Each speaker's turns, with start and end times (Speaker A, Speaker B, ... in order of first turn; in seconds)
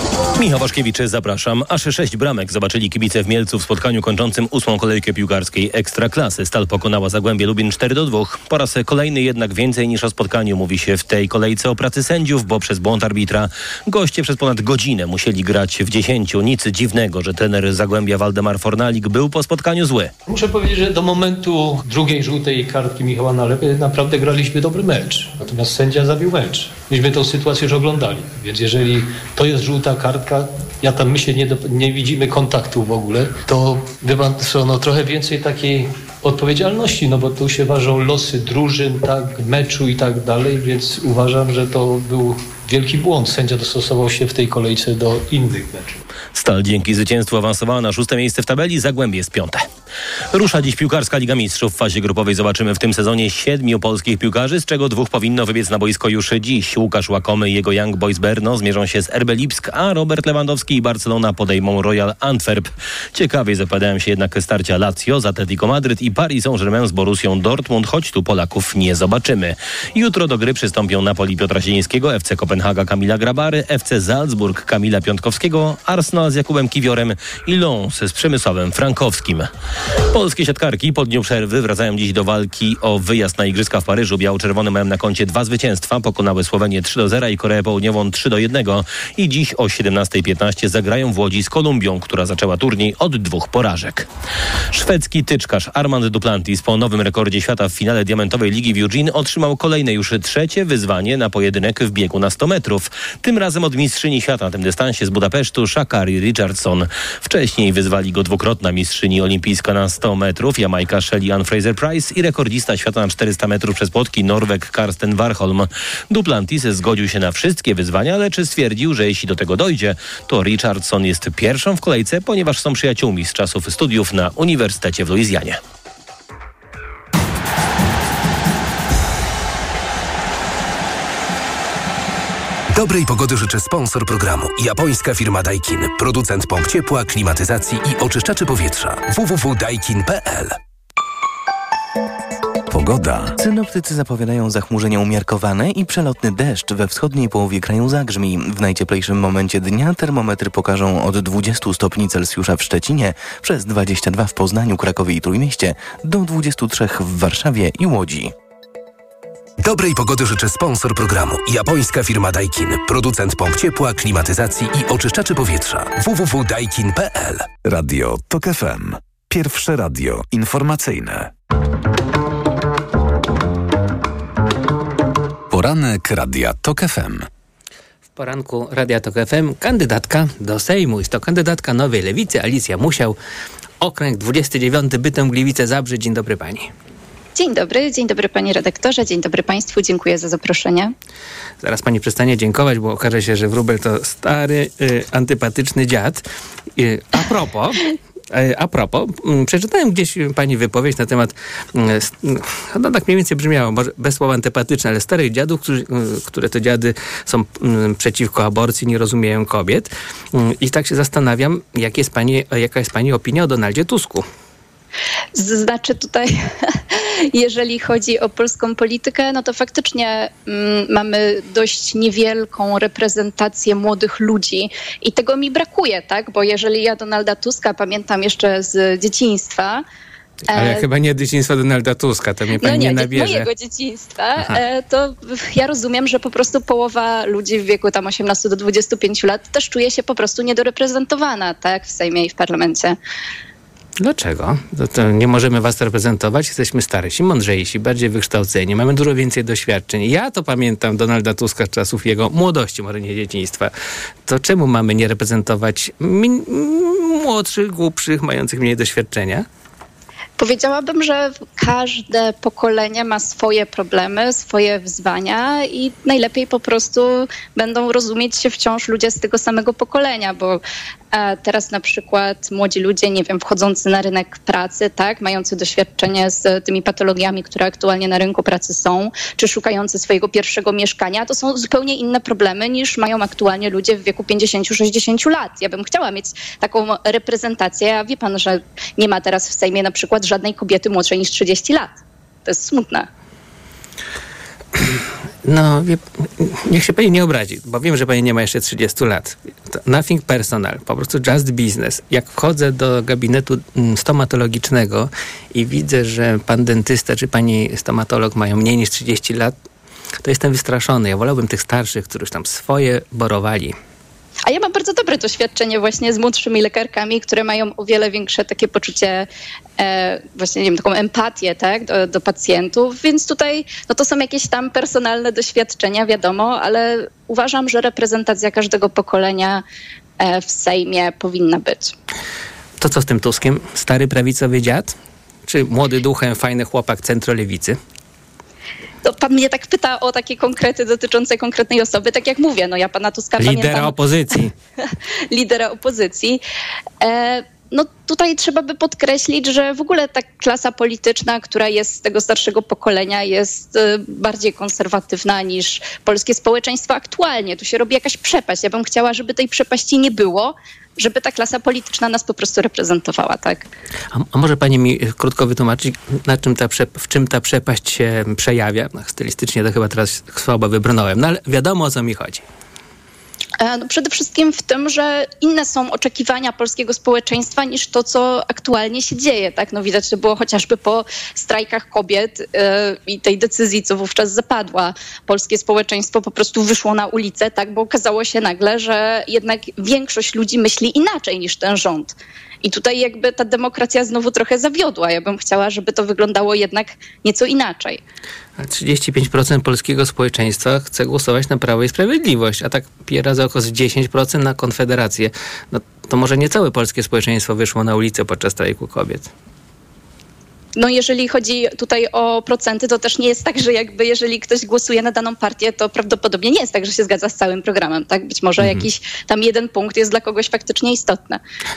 Speaker A: 0.4-20.1, 46.3-49.6, 50.3-79.5, 80.1-94.1, 94.7-125.6
Speaker B: 20.3-46.0
Speaker C: 132.7-140.6, 159.6-167.5
Speaker D: 142.7-143.3, 167.6-171.3, 175.5-177.2
Speaker E: 143.4-158.3
Speaker F: 178.2-183.2, 183.8-186.7, 191.6-196.2, 196.8-214.2, 230.5-233.5, 244.0-253.7, 254.3-259.5, 295.4-309.6, 310.2-313.8, 332.8-334.9, 335.5-337.8, 343.4-344.5, 364.1-372.4, 398.6-409.3, 418.6-418.9
Speaker G: 187.4-190.9, 215.4-216.3, 216.9-229.8, 230.5-230.8, 232.6-243.0, 260.4-270.6, 271.1-291.9, 292.5-293.1, 314.5-329.6, 330.2-331.9, 339.1-344.0, 345.3-346.4, 347.0-363.7, 373.6-398.0, 410.8-421.4